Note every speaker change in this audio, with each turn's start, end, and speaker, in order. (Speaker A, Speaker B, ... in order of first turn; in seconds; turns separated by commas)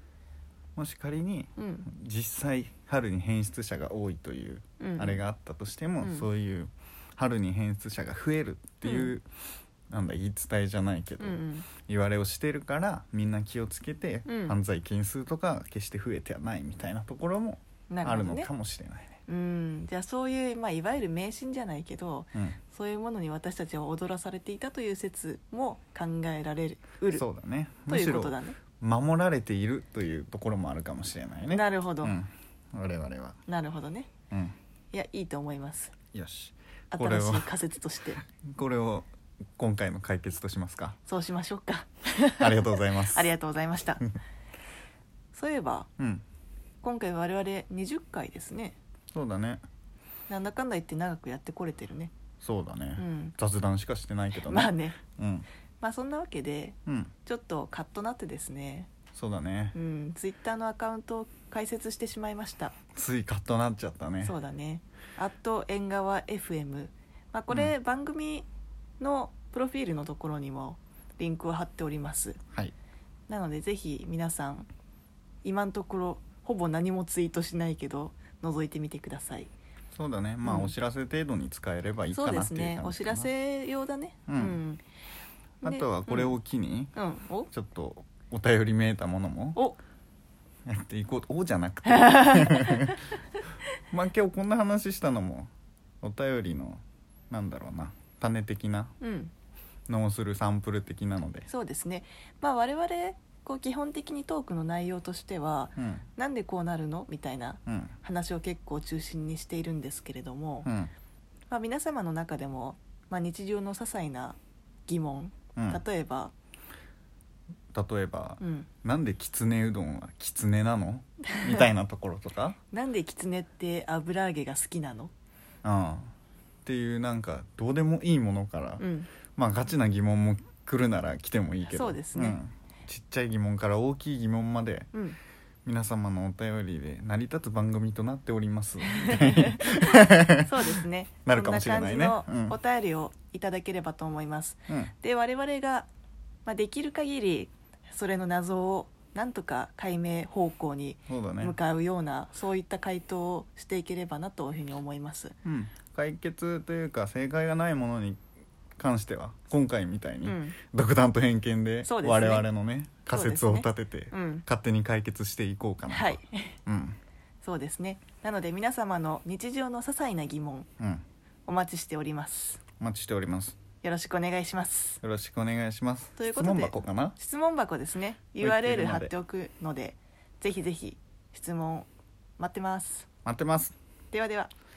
Speaker A: 0.8-9.2, Speaker B: 1.6-1.9, Speaker B: 4.8-5.2, Speaker B: 6.0-6.3, Speaker B: 8.8-9.1, Speaker A: 9.9-19.2, Speaker B: 11.2-11.7, Speaker B: 14.2-14.6, Speaker B: 17.9-18.5, Speaker B: 19.3-27.2, Speaker A: 27.1-33.4, Speaker B: 27.9-28.6, Speaker B: 31.5-32.2, Speaker B: 33.5-34.1, Speaker A: 34.3-34.5, Speaker B: 34.9-35.9, Speaker A: 36.1-37.5, Speaker B: 36.9-38.2, Speaker A: 38.4-41.0, Speaker B: 41.0-44.0, Speaker A: 42.4-43.3, Speaker B: 45.3-45.9, Speaker A: 46.0-46.2, Speaker B: 46.8-48.8, Speaker A: 49.1-49.6, Speaker B: 50.3-52.1, Speaker A: 52.4-55.5, Speaker B: 53.0-53.3, Speaker B: 54.3-55.0, Speaker B: 55.8-58.9, Speaker A: 56.9-57.1, Speaker A: 59.1-59.8, Speaker B: 59.7-62.8, Speaker A: 62.9-64.4, Speaker B: 64.2-68.5, Speaker B: 69.0-72.4, Speaker B: 73.3-74.7, Speaker B: 75.4-79.5, Speaker A: 79.9-83.3, Speaker B: 80.4-80.7, Speaker B: 82.1-84.8, Speaker A: 84.3-84.6, Speaker B: 85.6-86.3, Speaker A: 85.6-86.9, Speaker B: 87.0-87.5, Speaker A: 87.5-89.6, Speaker A: 90.7-93.0, Speaker B: 91.9-92.9, Speaker A: 93.9-95.5, Speaker A: 96.0-98.9, Speaker B: 99.0-99.3, Speaker A: 99.9-101.5, Speaker B: 101.5-110.7, Speaker A: 105.8-106.0, Speaker A: 107.7-107.9, Speaker A: 110.6-110.9, Speaker B: 111.5-116.3, Speaker A: 115.5-115.8, Speaker A: 117.7-122.6, Speaker B: 118.4-118.7, Speaker B: 121.3-121.6, Speaker B: 122.7-125.1, Speaker A: 125.6-126.1, Speaker A: 126.6-134.9, Speaker B: 128.8-129.1, Speaker B: 131.7-132.4, Speaker A: 135.7-142.6, Speaker B: 138.9-145.9, Speaker A: 144.7-144.9, Speaker B: 146.4-155.3, Speaker A: 151.1-151.6, Speaker A: 155.4-158.2, Speaker A: 158.8-167.0, Speaker B: 160.2-160.6, Speaker B: 161.8-162.5, Speaker B: 163.1-164.4, Speaker B: 165.9-166.6, Speaker B: 167.4-170.7, Speaker A: 170.8-171.0, Speaker B: 171.4-172.6, Speaker A: 172.8-173.6, Speaker B: 173.8-175.0, Speaker A: 175.0-177.2, Speaker B: 176.2-183.1, Speaker A: 178.4-179.1, Speaker A: 183.2-183.7, Speaker B: 184.1-184.5